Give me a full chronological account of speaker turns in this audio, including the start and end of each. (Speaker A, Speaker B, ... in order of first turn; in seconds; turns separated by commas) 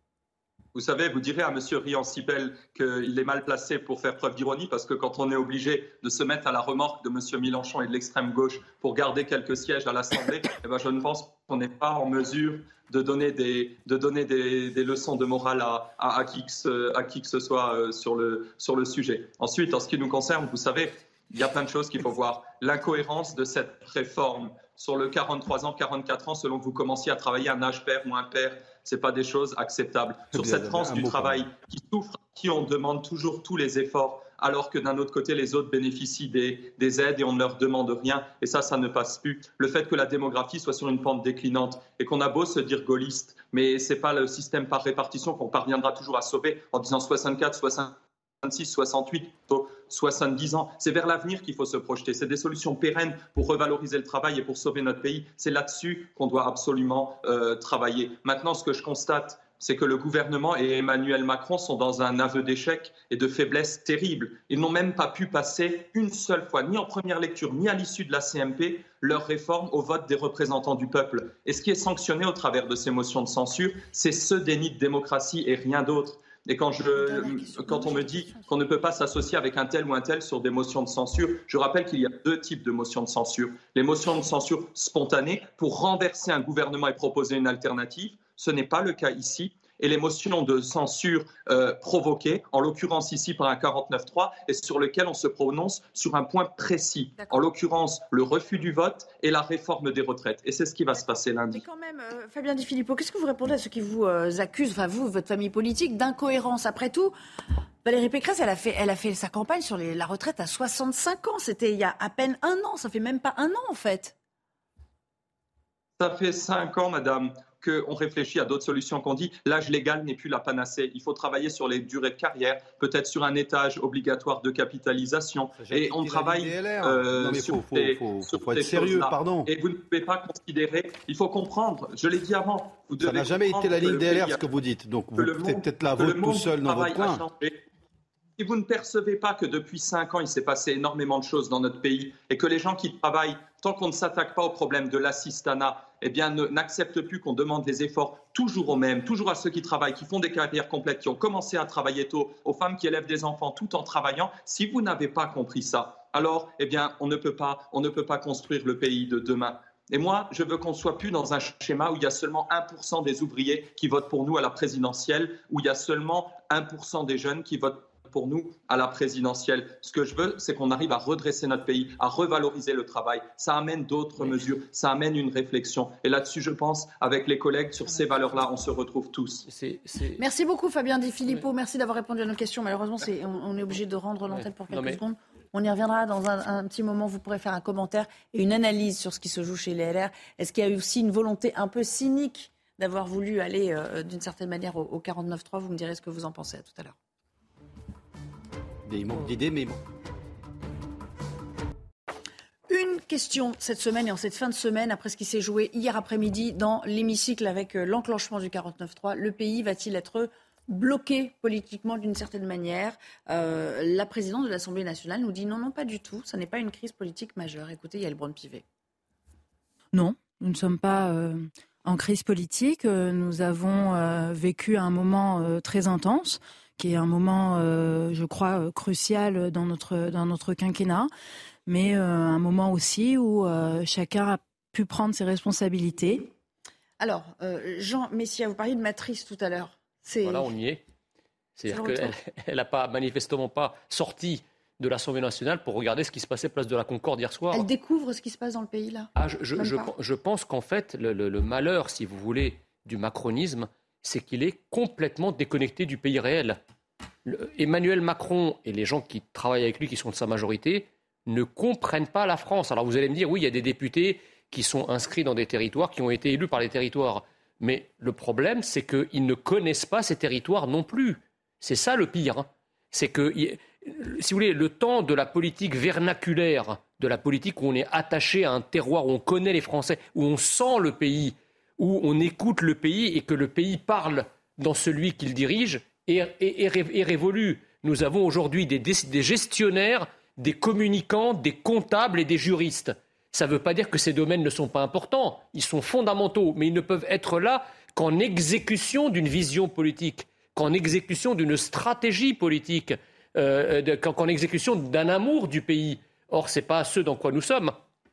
Speaker A: 0.7-101.6, Speaker B: 30.3-31.4, Speaker C: 76.9-78.7, Speaker C: 97.2-97.5, Speaker C: 100.9-107.1, Speaker C: 107.8-114.1, Speaker A: 116.0-134.4, Speaker B: 125.6-129.5, Speaker B: 133.0-137.2, Speaker A: 135.2-137.6, Speaker A: 138.4-179.4, Speaker D: 179.5-180.2, Speaker C: 180.2-196.9, Speaker D: 184.3-185.0, Speaker B: 198.8-199.8, Speaker C: 202.7-218.6, Speaker E: 219.9-231.1, Speaker E: 231.7-236.3, Speaker C: 237.0-240.5, Speaker D: 240.2-240.8, Speaker D: 241.6-247.7, Speaker C: 241.7-242.1, Speaker C: 247.5-249.9, Speaker D: 249.2-256.6, Speaker D: 257.2-307.8